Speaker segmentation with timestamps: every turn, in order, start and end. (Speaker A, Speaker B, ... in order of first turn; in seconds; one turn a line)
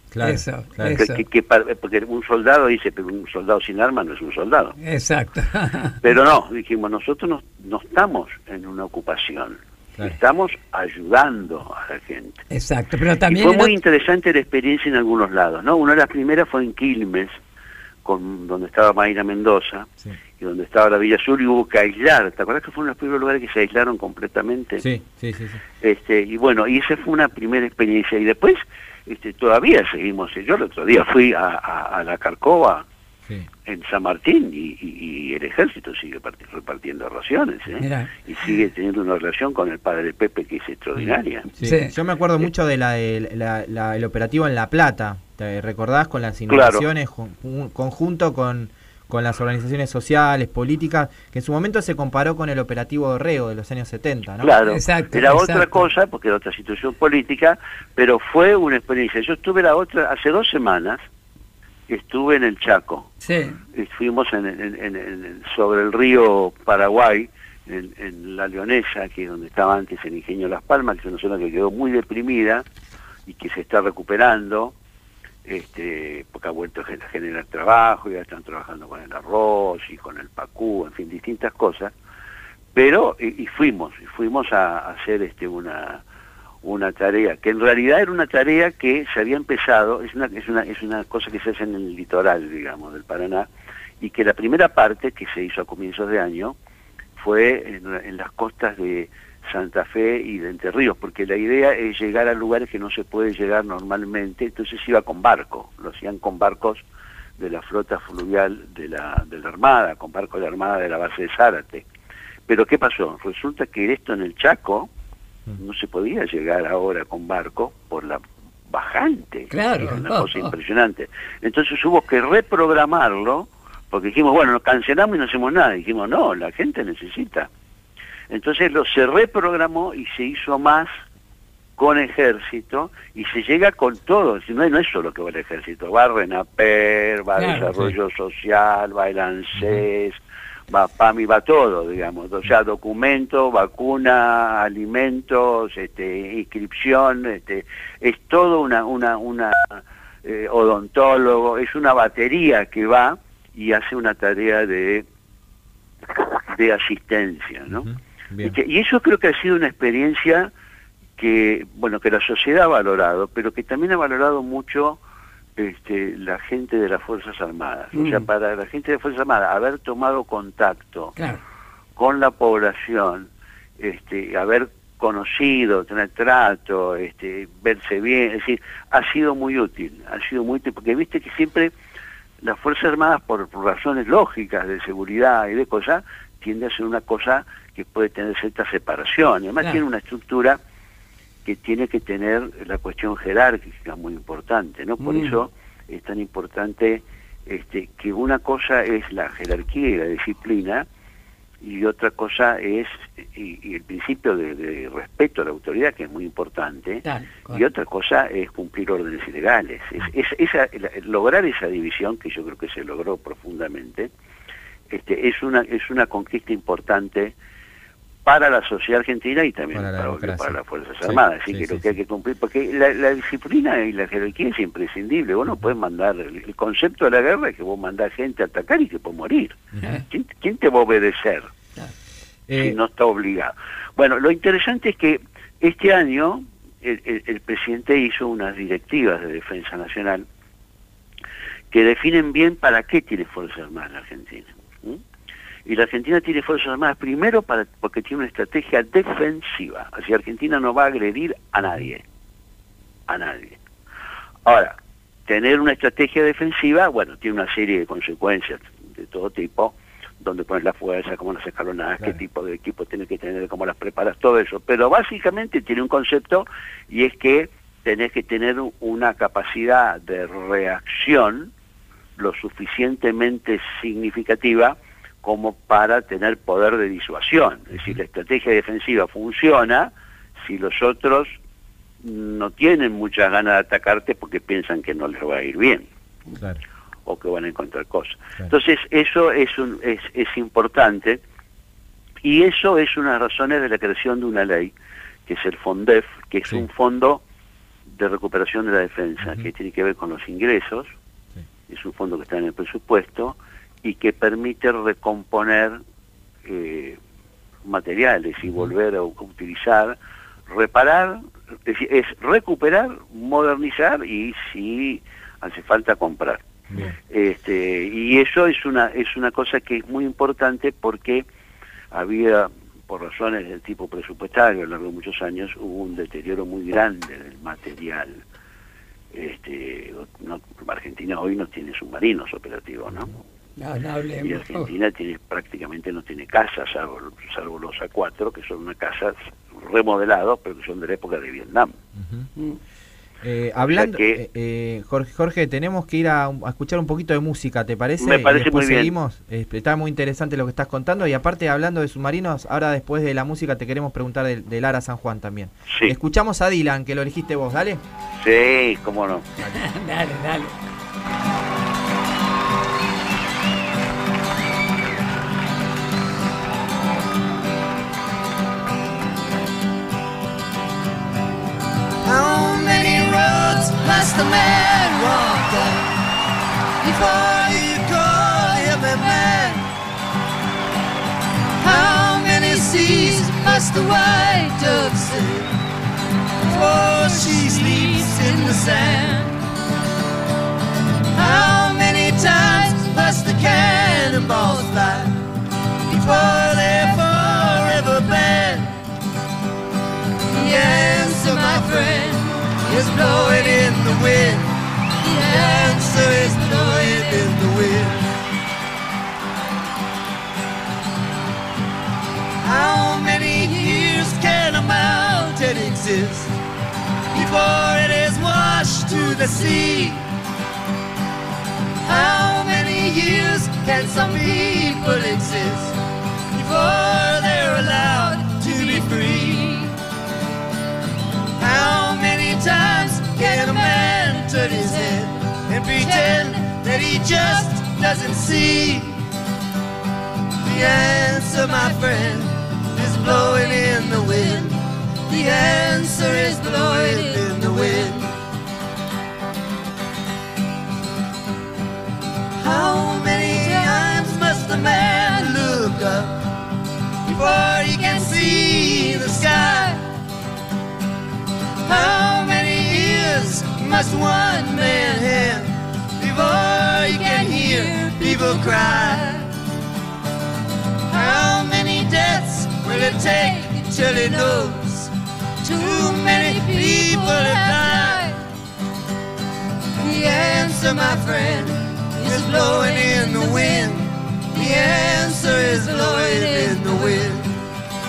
Speaker A: 0.1-0.9
Speaker B: 0.2-1.2
Speaker C: 0.9-4.8
Speaker B: 4.8-6.0
Speaker C: 6.0-12.4
Speaker B: 12.5-13.7
Speaker C: 13.3-17.4
Speaker C: 18.0-19.9
Speaker C: 20.4-24.8
Speaker A: 24.8-25.6
Speaker C: 25.8-32.8
Speaker C: 33.7-41.5
Speaker B: 37.8-38.1
Speaker A: 41.0-54.5
Speaker B: 41.6-41.9
Speaker C: 46.5-46.8
Speaker C: 54.4-61.0
Speaker B: 54.7-55.9
Speaker C: 61.9-63.1
Speaker B: 63.2-63.6
Speaker C: 63.7-72.6
Speaker C: 73.3-74.7
Speaker C: 75.5-81.9
Speaker C: 82.7-86.0
Speaker C: 86.6-93.5
Speaker C: 94.0-96.5
Speaker C: 97.2-106.8
Speaker C: 107.4-111.8
Speaker C: 112.5-114.9
Speaker C: 115.6-127.5
Speaker B: 119.5-120.5
Speaker C: 128.3-130.9
Speaker C: 131.8-140.2
Speaker B: 137.4-137.7
Speaker A: 139.6-139.8
Speaker C: 140.7-155.0
Speaker C: 156.5-157.9
Speaker A: 157.7-158.6
Speaker C: 158.4-160.5
Speaker C: 161.2-165.0
Speaker C: 165.6-171.2
Speaker B: 167.9-168.2
Speaker C: 171.9-173.3
Speaker C: 173.8-181.7
Speaker C: 182.4-190.6
Speaker C: 191.4-200.8
Speaker B: 195.0-195.4
Speaker C: 201.6-214.1
Speaker B: 207.0-207.6
Speaker C: 214.9-217.3
Speaker C: 218.2-231.5
Speaker A: 219.7-221.9
Speaker A: 232.5-232.8
Speaker C: 232.6-240.2
Speaker C: 241.7-245.0
Speaker C: 245.7-252.0
Speaker C: 253.1-253.6
Speaker C: 254.4-254.7
Speaker C: 255.3-271.5
Speaker C: 272.2-279.9
Speaker C: 280.4-281.4
Speaker C: 282.0-285.8
Speaker C: 287.1-291.2
Speaker C: 292.2-294.7
Speaker C: 295.3-297.2
Speaker C: 297.9-300.9
Speaker C: 301.7-305.8
Speaker C: 306.4-307.0
Speaker C: 307.6-309.9
Speaker A: 308.4-308.7
Speaker C: 310.5-316.4
Speaker C: 317.1-321.2
Speaker C: 321.9-328.2
Speaker C: 329.1-333.1
Speaker B: 333.6-334.7
Speaker C: 334.2-341.7
Speaker A: 341.9-342.3
Speaker A: 343.2-357.8
Speaker C: 343.7-344.2
Speaker C: 348.0-348.9
Speaker C: 358.2-359.2
Speaker B: 359.5-360.5
Speaker D: 372.0-375.9
Speaker D: 376.8-379.7
Speaker D: 381.6-385.5
Speaker D: 386.4-389.4
Speaker D: 391.2-395.2
Speaker D: 395.9-398.8
Speaker D: 400.3-404.5
Speaker D: 405.0-408.1
Speaker D: 412.4-416.3
Speaker D: 417.1-420.0
Speaker D: 421.9-425.7
Speaker D: 426.3-429.7
Speaker D: 431.4-439.0
Speaker D: 440.4-448.1
Speaker D: 452.4-456.2
Speaker D: 457.1-459.9
Speaker D: 461.6-469.3
Speaker D: 470.9-474.9
Speaker D: 475.4-478.2
Speaker D: 479.8-487.3